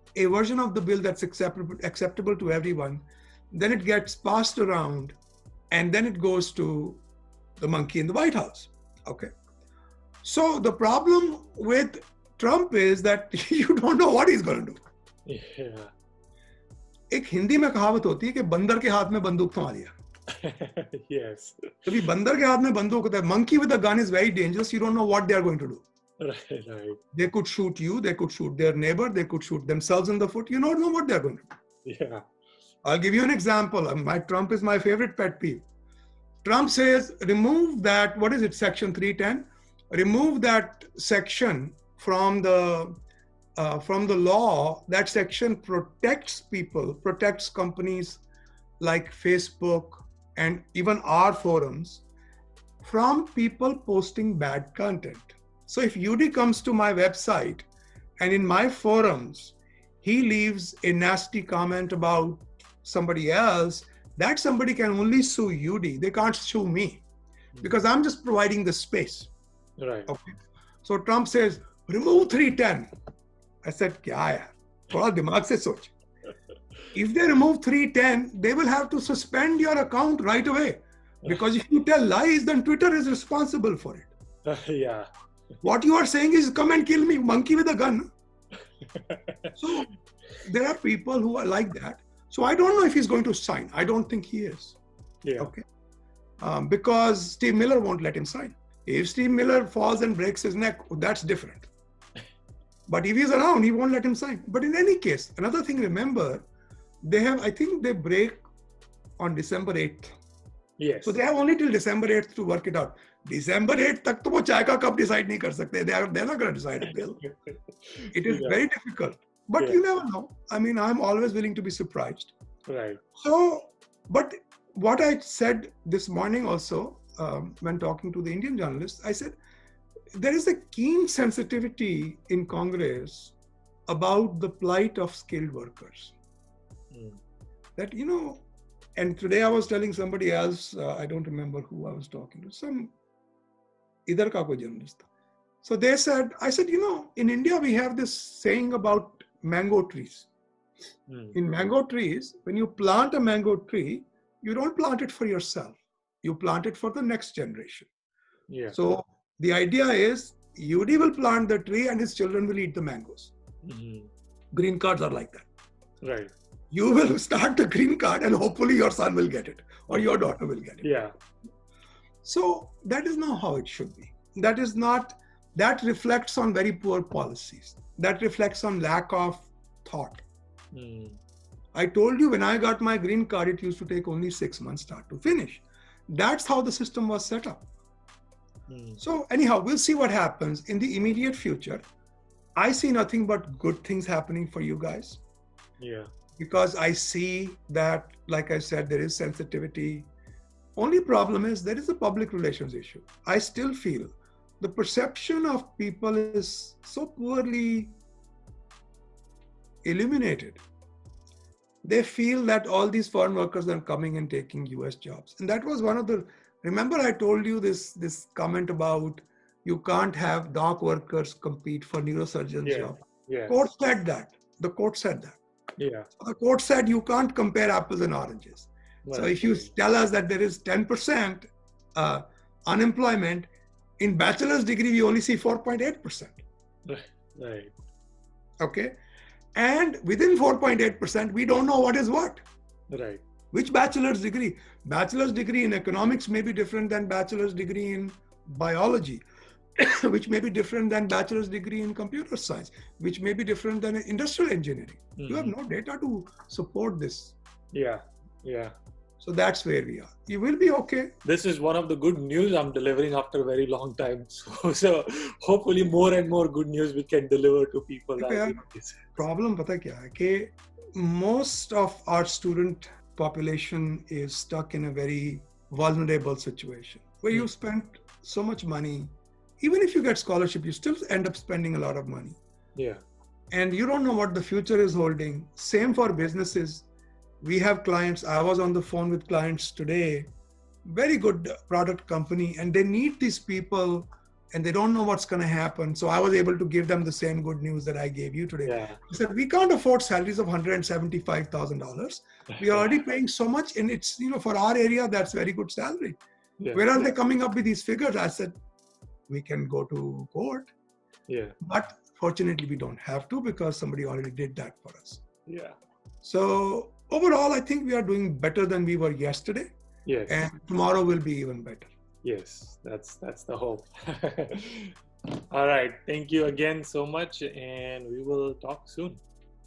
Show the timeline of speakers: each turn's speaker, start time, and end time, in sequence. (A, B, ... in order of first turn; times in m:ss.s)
0:00.1-0:05.2 A
0:05.7-0:07.0 A
0:07.6-0:09.3 A
0:10.2-0:14.8 A
0:15.3-0:15.9 B
0:17.1-0:19.9 A
0:20.3-0:21.8 B
0:21.9-0:25.8 A
0:26.2-0:27.0 B
0:27.1-0:31.5 A
0:31.9-0:32.2 B
0:32.8-0:35.6 A
0:36.4-0:43.0 A
0:43.6-0:48.2 A
0:48.8-0:52.0 A
0:52.8-0:57.7 A
0:58.2-1:07.0 A
1:07.6-1:09.3 A
1:09.8-1:10.1 B
1:10.1-1:12.9 A
1:13.6-1:15.9 A
1:16.9-1:24.1 A
1:24.5-1:25.1 B
1:25.6-1:28.1 A
1:28.8-1:29.5 B
1:29.6-1:29.9 A
1:30.4-1:34.8 A
1:35.2-1:35.5 B
1:36.4-1:41.7 A
1:42.9-1:46.5 A
1:47.0-1:48.4 A
1:49.2-1:50.1 A
1:50.8-1:51.2 B
1:51.0-1:57.2 A
1:57.2-1:58.6 B
1:58.1-2:02.3 A
2:02.7-2:03.0 B
2:03.2-2:09.4 A
2:10.1-2:13.4 A
2:13.9-2:16.1 A
2:16.9-2:17.2 B
2:17.8-2:18.4 A
2:19.0-2:22.9 A
2:24.0-2:25.0 A
2:25.6-2:30.3 A
2:31.1-2:31.4 B
2:31.3-2:37.9 A
2:38.5-2:38.8 B
2:38.7-2:43.3 A
2:43.6-2:44.1 B
2:44.5-2:45.5 A
2:46.0-2:46.3 B
2:46.7-2:50.9 A
2:50.8-2:51.1 B
2:52.2-3:00.2 A
3:00.7-3:01.2 B
3:01.7-3:07.7 A
3:08.7-3:09.0 B
3:09.0-3:11.8 A
3:12.6-3:15.2 A
3:15.8-3:16.1 B
3:16.4-3:20.1 A
3:20.8-3:28.0 A
3:29.8-3:30.6 A
3:31.8-3:45.4 A
3:42.6-3:43.6 B
3:45.8-3:46.1 B
3:46.2-3:56.4 A
3:49.0-3:49.7 B
3:56.9-3:57.7 B
3:58.6-3:59.0 A
3:59.5-4:02.4 A
4:02.9-4:03.2 B
4:03.5-4:09.2 A
4:09.8-4:17.4 A
4:15.2-4:15.5 B
4:17.7-4:18.7 B
4:19.2-4:21.1 A
4:21.2-4:29.0 B
4:28.2-4:28.6 A
4:29.2-4:42.4 A
4:42.8-4:43.0 B
4:43.5-4:46.8 A
4:47.4-4:50.3 A
4:50.8-5:06.2 A
4:58.6-4:59.0 B
5:02.7-5:02.9 B
5:06.6-5:07.1 B
5:06.7-5:08.6 A
5:09.3-5:10.7 A
5:11.3-5:11.5 B
5:11.6-5:15.2 A
5:15.5-5:15.8 B
5:16.2-5:19.7 A
5:20.0-5:20.3 B
5:20.3-5:21.9 A
5:22.2-5:24.9 B
5:25.5-5:29.2 B